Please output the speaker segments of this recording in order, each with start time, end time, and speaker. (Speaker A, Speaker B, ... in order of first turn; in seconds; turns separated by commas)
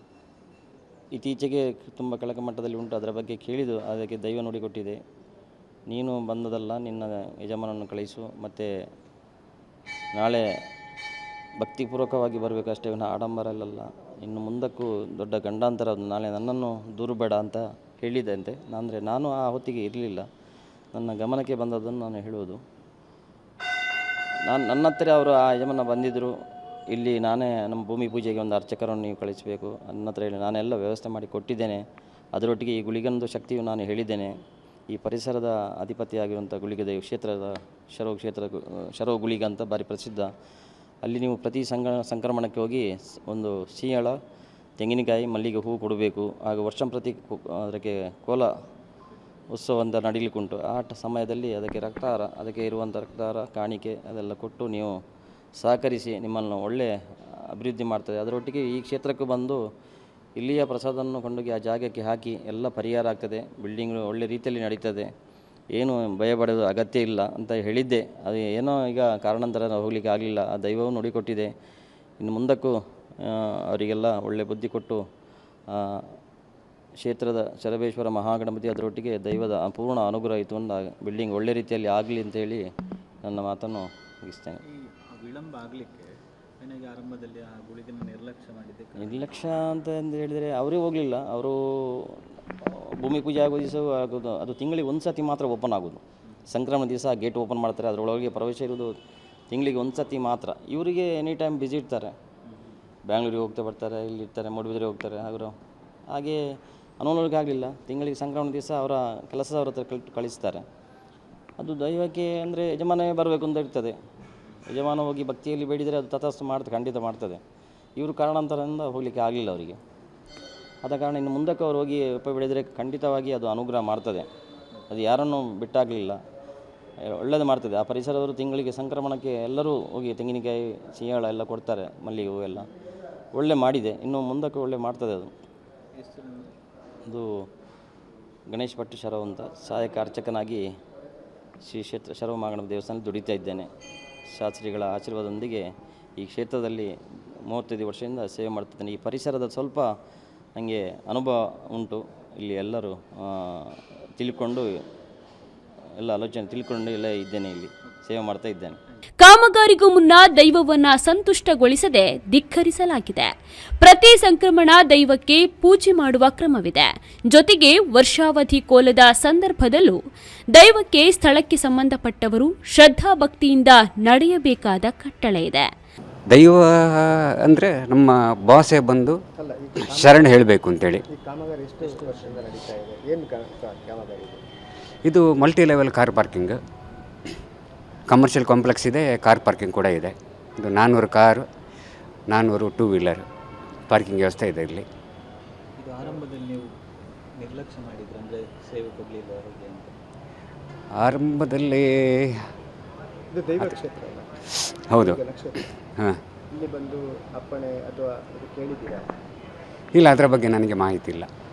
Speaker A: 1.1-5.0, Speaker A: 5.9-8.7, Speaker A: 10.2-10.5, Speaker A: 11.6-20.3, Speaker A: 20.9-22.6, Speaker A: 24.4-26.4, Speaker A: 26.9-31.8, Speaker A: 32.3-34.3, Speaker A: 34.9-40.3, Speaker A: 41.0-44.2, Speaker A: 44.8-48.5, Speaker A: 49.5-55.0, Speaker A: 55.6-59.6, Speaker A: 60.4-65.1, Speaker A: 65.7-71.5, Speaker A: 72.2-75.0, Speaker A: 75.7-76.1, Speaker A: 77.0-82.7, Speaker A: 83.2-84.6, Speaker B: 84.6-89.5, Speaker A: 89.0-99.0, Speaker A: 99.5-102.1, Speaker A: 103.1-105.5, Speaker A: 106.1-110.6, Speaker A: 111.6-114.0, Speaker A: 114.7-117.4, Speaker A: 118.0-119.8, Speaker A: 120.8-124.3, Speaker A: 124.9-126.2, Speaker A: 127.1-132.7, Speaker A: 133.3-135.3, Speaker B: 135.9-136.5, Speaker A: 137.1-137.4, Speaker A: 138.5-140.7, Speaker A: 141.6-143.7, Speaker A: 144.3-145.7, Speaker A: 146.2-146.9, Speaker A: 147.5-149.9, Speaker A: 150.6-154.8, Speaker A: 156.0-158.8, Speaker C: 159.2-170.0, Speaker C: 170.5-175.7, Speaker D: 176.3-179.2, Speaker E: 179.3-180.3, Speaker D: 179.9-181.0, Speaker E: 181.1-184.4, Speaker B: 181.8-182.4, Speaker D: 185.0-186.6, Speaker D: 188.1-191.4, Speaker D: 192.3-193.2, Speaker D: 193.9-194.8, Speaker B: 195.8-196.7, Speaker B: 197.4-199.9, Speaker D: 200.9-202.4, Speaker E: 203.3-204.3, Speaker D: 204.9-205.2, Speaker E: 204.9-205.6, Speaker E: 206.5-209.0, Speaker D: 209.9-211.3